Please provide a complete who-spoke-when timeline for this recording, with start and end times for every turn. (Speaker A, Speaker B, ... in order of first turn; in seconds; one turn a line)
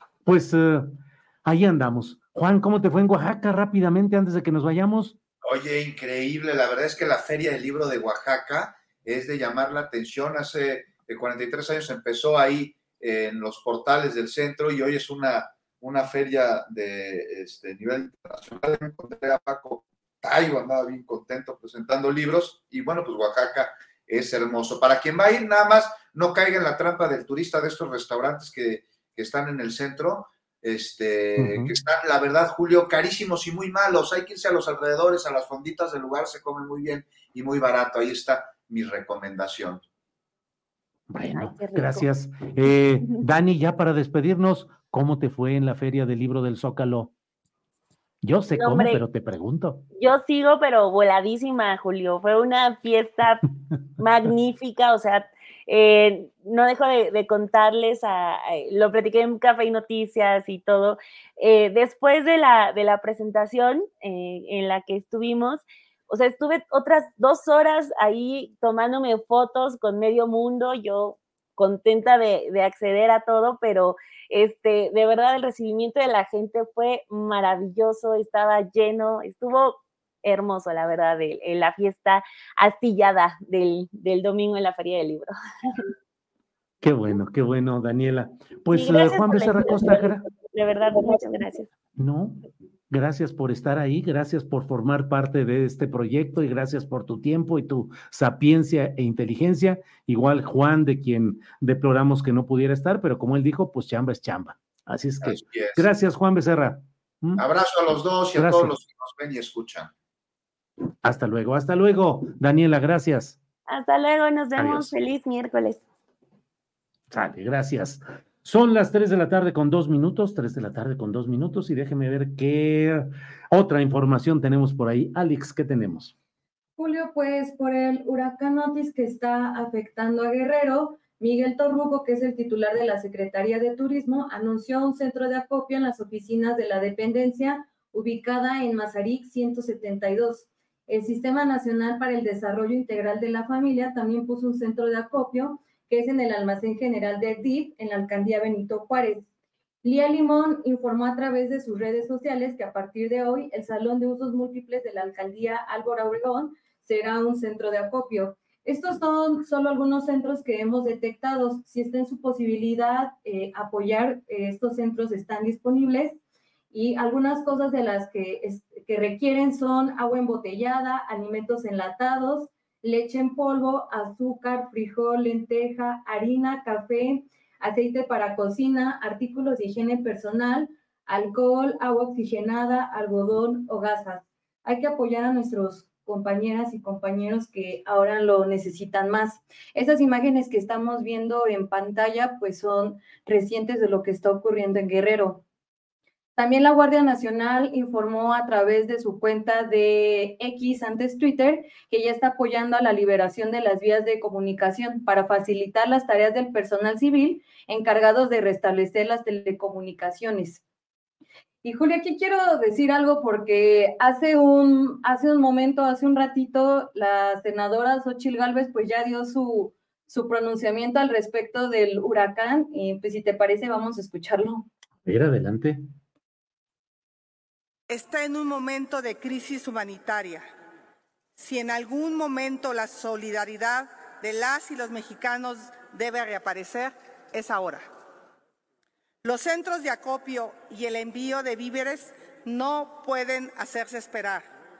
Speaker A: 0.2-5.2
Speaker B: 5.4-39.8
Speaker A: 31.4-31.8
Speaker A: 41.1-47.1
Speaker C: 41.3-42.1
Speaker A: 48.2-49.8
Speaker C: 48.5-49.0
Speaker C: 50.0-53.4
Speaker C: 54.0-85.8
Speaker A: 86.8-90.2
Speaker C: 88.7-91.7
Speaker A: 92.0-107.5
Speaker B: 105.2-105.9
Speaker B: 107.4-109.9
Speaker A: 108.3-108.7
Speaker A: 111.0-113.4
Speaker C: 113.7-115.8
Speaker A: 114.6-114.9
Speaker A: 117.1-126.1
Speaker D: 126.8-149.3
Speaker D: 149.8-166.2
Speaker D: 166.7-195.4
Speaker D: 196.3-210.6
Speaker D: 211.6-224.7
Speaker A: 225.0-225.8
Speaker E: 227.9-230.5
Speaker E: 231.4-237.9
Speaker E: 239.2-244.5